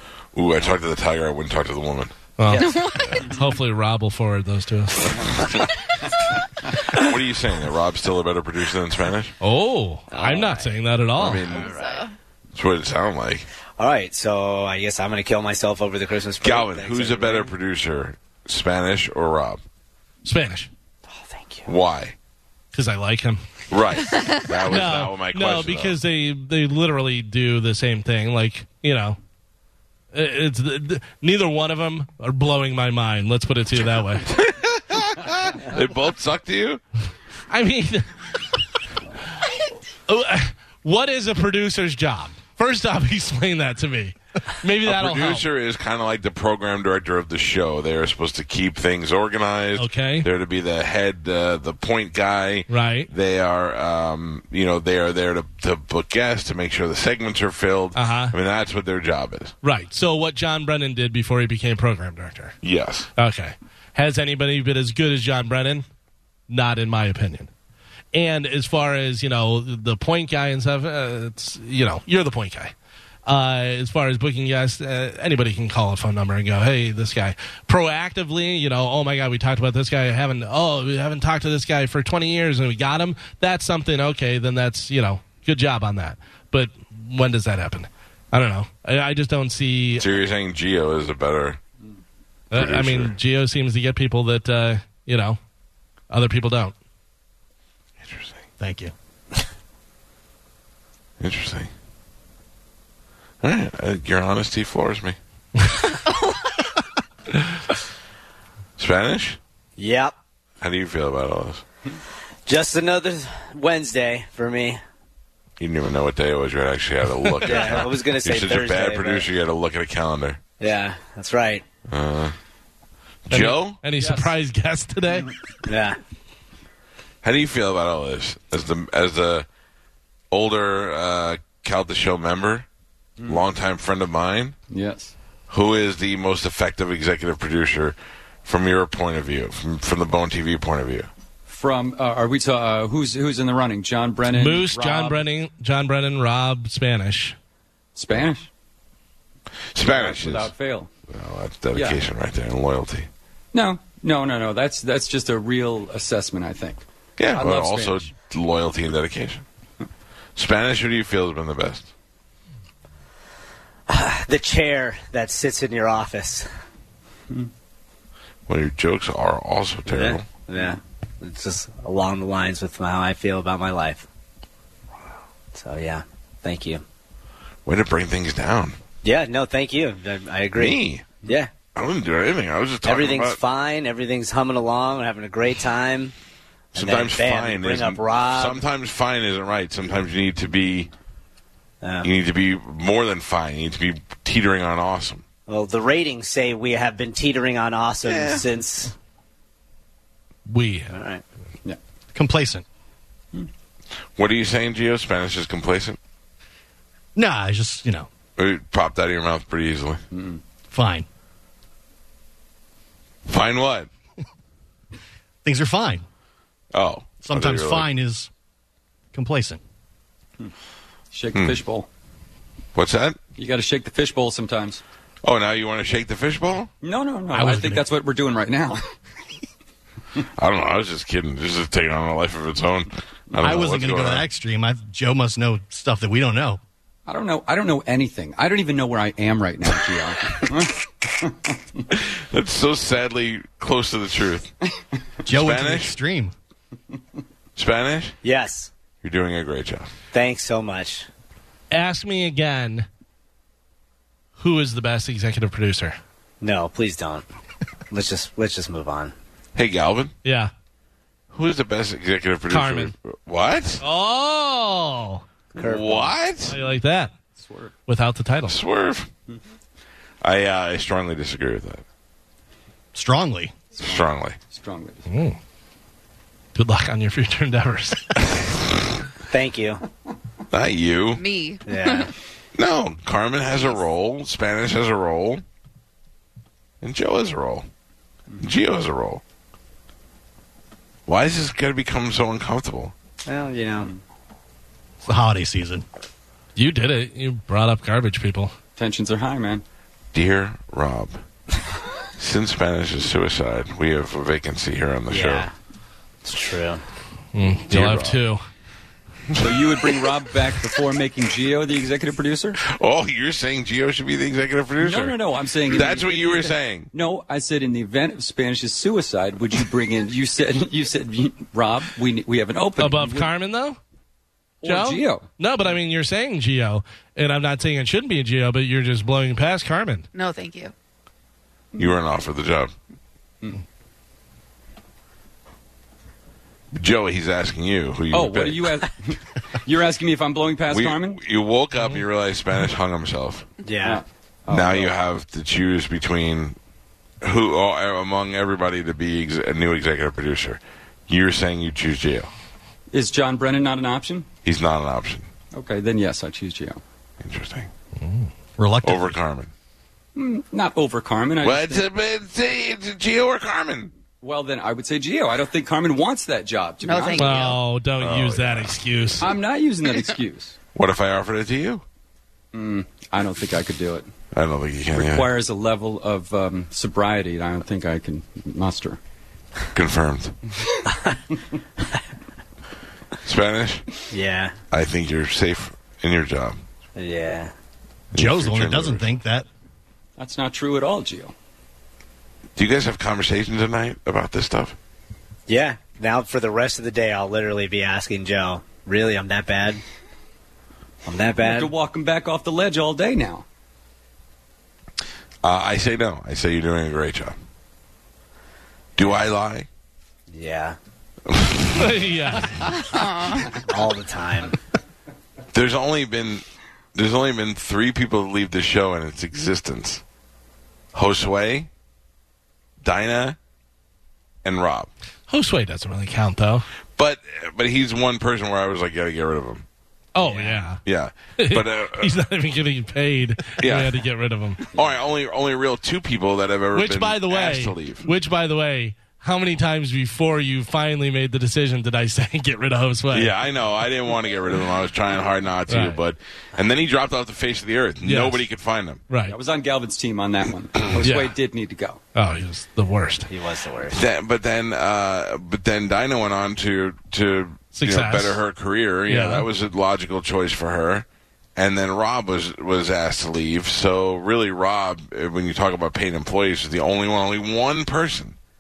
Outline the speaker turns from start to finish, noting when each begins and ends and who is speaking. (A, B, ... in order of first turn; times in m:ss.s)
0:00.4-0:03.3 A
0:02.4-0:02.7 B
0:02.5-0:03.0 C
0:02.7-0:03.1 D
0:03.2-0:05.1 B
0:05.1-0:05.6 A
0:06.9-0:09.3 A
0:09.4-0:11.5 B
0:10.1-0:10.8 C
0:11.1-0:11.7 A
0:11.4-0:12.1 D
0:11.5-0:12.1 C
0:12.6-0:13.5 A
0:13.8-0:17.5 C
0:16.4-0:19.6 A
0:20.2-0:20.7 B
0:21.1-0:21.8 C
0:21.7-0:22.2 A
0:22.7-0:23.4 B
0:23.7-0:26.0 A
0:24.7-0:29.2 B
0:30.1-0:34.3 B
0:34.3-0:36.8 A
0:37.5-0:38.6 B
0:40.1-0:45.5 B
0:44.8-0:59.5 A
0:49.8-0:50.3 B
0:52.7-0:53.1 B
0:58.0-0:58.3 B
0:59.6-1:02.6 B
1:02.6-1:03.1 A
1:03.2-1:05.9 B
1:06.5-1:07.5 B
1:08.1-1:12.7 B
1:13.3-1:30.1 B
1:30.0-1:31.6 A
1:32.5-1:35.4 B
1:32.5-1:33.2 A
1:36.1-1:36.8 B
1:38.0-1:38.4 A
1:38.6-1:38.9 E
1:41.2-1:41.7 A
1:43.4-1:45.2 A
1:46.1-1:46.3 D
1:48.8-1:49.4 A
1:49.8-1:50.1 C
1:50.6-1:51.6 A
1:52.5-1:54.8 C
1:55.6-2:00.4 A
1:57.3-1:59.3 C
2:00.6-2:01.6 C
2:01.9-2:02.4 A
2:03.3-2:03.8 A
2:03.3-2:05.4 B
2:03.9-2:04.4 F
2:05.7-2:06.0 C
2:07.2-2:09.5 A
2:10.3-2:12.7 A
2:13.2-2:13.4 F
2:13.2-2:14.6 A
2:14.7-2:15.1 F
2:15.5-2:21.1 A
2:21.5-2:25.3 F
2:24.3-2:27.4 B
2:28.0-2:28.5 F
2:29.7-2:30.5 A
2:29.8-2:30.9 F
2:31.1-2:33.1 A
2:31.7-2:32.1 F
2:33.5-2:38.2 F
2:37.2-2:39.4 A
2:40.4-2:41.9 A
2:43.9-2:46.5 C
2:48.5-2:50.3 A
2:49.8-2:54.0 C
2:55.5-2:56.8 C
2:57.7-2:58.8 A
2:59.0-3:01.5 C
3:00.6-3:01.2 A
3:01.7-3:03.4 A
3:02.8-3:06.1 C
3:06.7-3:08.7 C
3:06.8-3:10.9 A
3:11.8-3:12.1 C
3:12.0-3:15.2 A
3:15.5-3:18.9 C
3:18.0-3:18.4 A
3:20.5-3:21.0 B
3:20.9-3:21.2 C
3:22.1-3:22.6 E
3:24.2-3:26.0 A
3:27.2-3:28.1 E
3:28.4-3:30.0 A
3:30.1-3:30.4 F
3:30.7-3:31.1 E
3:33.3-3:33.9 A
3:35.4-3:36.0 E
3:36.7-3:37.9 A
3:37.2-3:38.3 E
3:39.1-3:39.6 E
3:41.1-3:41.9 F
3:41.3-3:41.6 A
3:42.8-3:43.2 A
3:43.4-3:44.8 F
3:45.2-3:46.7 A
3:46.8-3:48.9 F
3:47.3-3:47.9 E
3:50.4-3:54.3 A
3:53.4-3:56.6 E
3:57.1-4:01.8 F
4:01.9-4:04.5 A
4:05.3-4:06.3 E
4:05.3-4:06.0 A
4:07.6-4:08.2 A
4:08.2-4:08.7 C
4:09.0-4:09.9 A
4:10.1-4:11.1 C
4:11.7-4:12.9 B
4:14.4-4:16.0 B
4:16.4-4:17.2 C
4:17.9-4:19.2 C
4:19.6-4:20.1 A
4:20.2-4:20.5 B
4:21.3-4:23.8 A
4:22.5-4:22.9 B
4:23.8-4:25.2 B
4:25.6-4:26.2 C
4:25.6-4:26.6 A
4:26.5-4:27.1 B
4:27.3-4:27.7 F
4:27.9-4:28.6 B
4:28.5-4:29.1 A
4:30.2-4:31.8 A
4:33.0-4:33.7 E
4:33.8-4:35.1 F
4:33.8-4:34.4 A
4:35.1-4:35.4 B
4:36.6-4:38.3 B
4:39.3-4:39.8 C
4:40.5-4:41.2 A
4:41.1-4:42.1 D
4:41.7-4:42.1 C
4:42.6-4:45.4 A
4:46.8-4:47.7 A
4:48.4-4:49.2 A
4:51.1-4:52.9 A
4:53.2-4:53.9 C
4:55.1-4:55.8 E
4:56.6-4:58.5 B
4:58.8-4:59.6 F
5:00.1-5:01.2 A
5:02.2-5:05.5 A
5:05.1-5:05.5 C
5:06.2-5:06.8 C
5:07.3-5:08.4 B
5:07.6-5:08.2 A
5:09.3-5:09.9 A
5:09.4-5:12.6 F
5:12.6-5:16.9 A
5:14.8-5:23.4 F
5:22.8-5:23.8 B
5:24.6-5:25.3 F
5:24.6-5:30.1 B
5:30.1-5:30.7 D
5:31.8-5:32.7 A
5:36.7-5:38.7 A
5:38.1-5:41.2 F
5:40.7-5:43.5 A
5:43.6-5:44.0 C
5:43.8-5:45.0 F
5:44.5-5:46.6 A
5:47.2-5:52.3 A
5:52.9-5:54.3 F
5:54.4-5:55.3 A
5:55.5-5:56.8 F
5:57.2-5:57.7 A
5:58.0-5:58.3 B
5:58.6-5:59.2 E
5:58.8-5:59.5 A
6:00.2-6:01.9 F
6:01.4-6:03.9 A
6:04.2-6:07.4 F
6:06.8-6:07.6 D
6:07.1-6:09.2 B
6:08.0-6:09.4 A
6:09.2-6:10.6 F
6:10.7-6:11.8 A
6:12.5-6:14.1 F
6:14.3-6:15.4 A
6:14.9-6:19.0 F
6:19.7-6:20.4 A
6:23.2-6:23.9 A
6:24.1-6:24.6 C
6:24.7-6:26.6 A
6:27.0-6:27.5 C
6:28.1-6:29.1 A
6:28.2-6:29.5 E
6:30.2-6:31.3 F
6:32.6-6:34.8 A
6:35.5-6:39.8 C
6:41.0-6:41.7 C
6:41.4-6:43.5 F
6:45.4-6:47.4 A
6:49.0-6:49.7 A
6:50.3-6:50.8 C
6:51.3-6:51.9 A
6:51.8-6:52.7 B
6:52.8-6:53.5 D
6:53.6-6:54.6 C
6:55.5-6:56.4 A
6:57.0-7:00.0 A
7:00.9-7:01.7 A
7:02.8-7:03.4 A
7:04.4-7:04.9 A
7:05.3-7:06.7 B
7:07.0-7:09.7 A
7:10.2-7:10.8 B
7:10.2-7:10.7 C
7:10.8-7:12.2 A
7:11.4-7:14.6 B
7:13.6-7:14.0 A
7:14.7-7:15.0 F
7:14.7-7:18.1 A
7:16.7-7:23.3 B
7:23.1-7:29.0 A
7:25.7-7:26.0 B
7:28.0-7:28.4 B
7:29.1-7:29.4 B
7:29.3-7:32.0 F
7:31.0-7:31.4 B
7:32.1-7:33.3 B
7:33.3-7:34.0 C
7:33.9-7:48.4 A
7:37.7-7:38.4 B
7:39.1-7:39.5 B